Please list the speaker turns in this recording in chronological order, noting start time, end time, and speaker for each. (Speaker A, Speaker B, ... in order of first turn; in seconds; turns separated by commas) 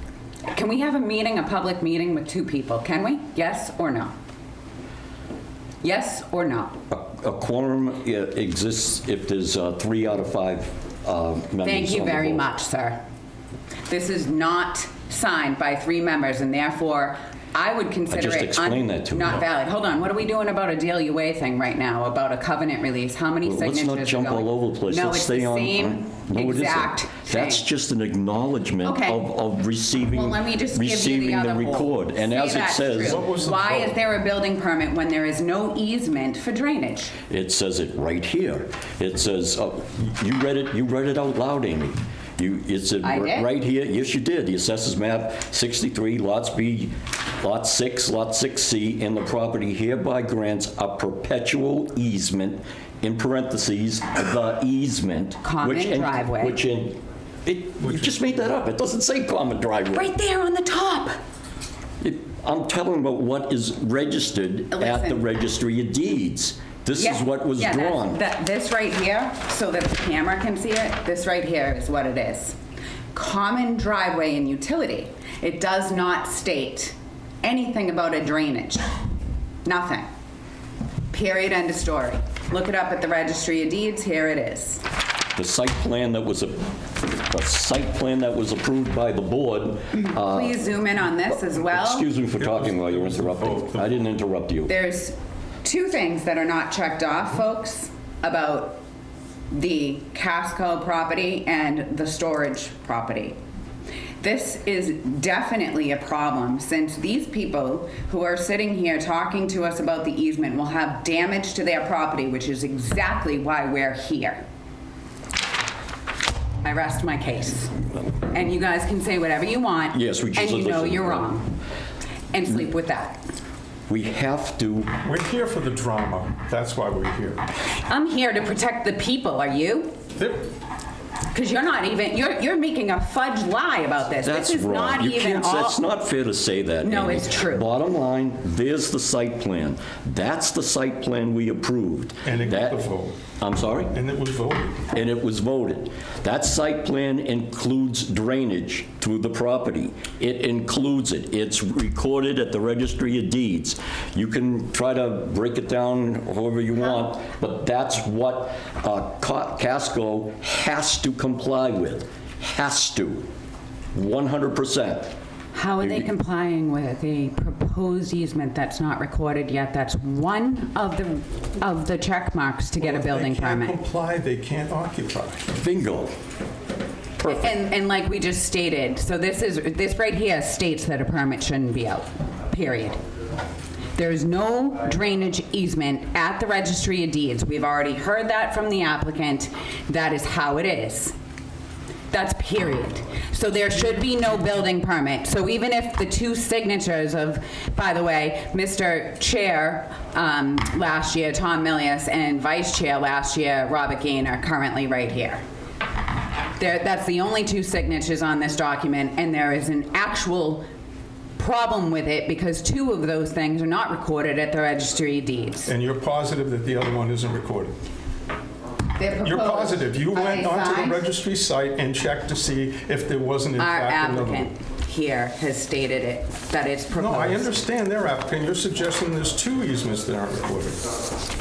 Speaker A: 0.5-4.1, Speaker A: 5.8-6.8, Speaker B: 6.9-12.5, Speaker A: 11.6-13.0, Speaker A: 13.9-27.6, Speaker B: 18.1-19.4, Speaker B: 23.4-33.2, Speaker A: 28.8-29.3, Speaker A: 30.1-37.1, Speaker C: 33.0-34.0, Speaker B: 37.3-60.1, Speaker A: 43.0-43.5, Speaker A: 55.4-56.6, Speaker C: 57.8-58.4, Speaker A: 60.0-61.1, Speaker B: 62.0-68.2, Speaker A: 64.7-65.2, Speaker A: 67.0-72.5, Speaker A: 73.1-78.9, Speaker A: 79.6-80.0, Speaker A: 81.1-84.8, Speaker B: 85.3-90.6, Speaker A: 90.0-92.1, Speaker B: 91.5-94.7, Speaker C: 92.4-93.8, Speaker A: 94.7-98.8, Speaker A: 99.5-103.4, Speaker A: 104.2-114.4, Speaker A: 116.6-117.8, Speaker A: 118.3-121.5, Speaker B: 119.9-121.3, Speaker A: 122.3-123.2, Speaker B: 123.9-124.9, Speaker C: 125.0-127.4, Speaker A: 127.9-130.0, Speaker C: 130.2-130.5, Speaker A: 131.3-135.8, Speaker B: 134.2-142.8, Speaker A: 136.8-137.7, Speaker C: 142.2-143.2, Speaker B: 143.4-144.0, Speaker C: 143.9-144.9, Speaker B: 144.9-163.3, Speaker B: 163.9-165.1, Speaker A: 165.5-173.8, Speaker B: 165.8-166.1, Speaker C: 172.8-175.6, Speaker B: 175.6-176.2, Speaker B: 177.2-177.5, Speaker A: 177.3-183.0, Speaker A: 183.9-191.1, Speaker A: 192.1-205.4, Speaker A: 206.6-210.7, Speaker A: 211.4-215.7, Speaker C: 215.7-217.7, Speaker A: 219.0-221.1, Speaker C: 219.2-224.5, Speaker A: 223.6-227.6, Speaker C: 226.9-230.8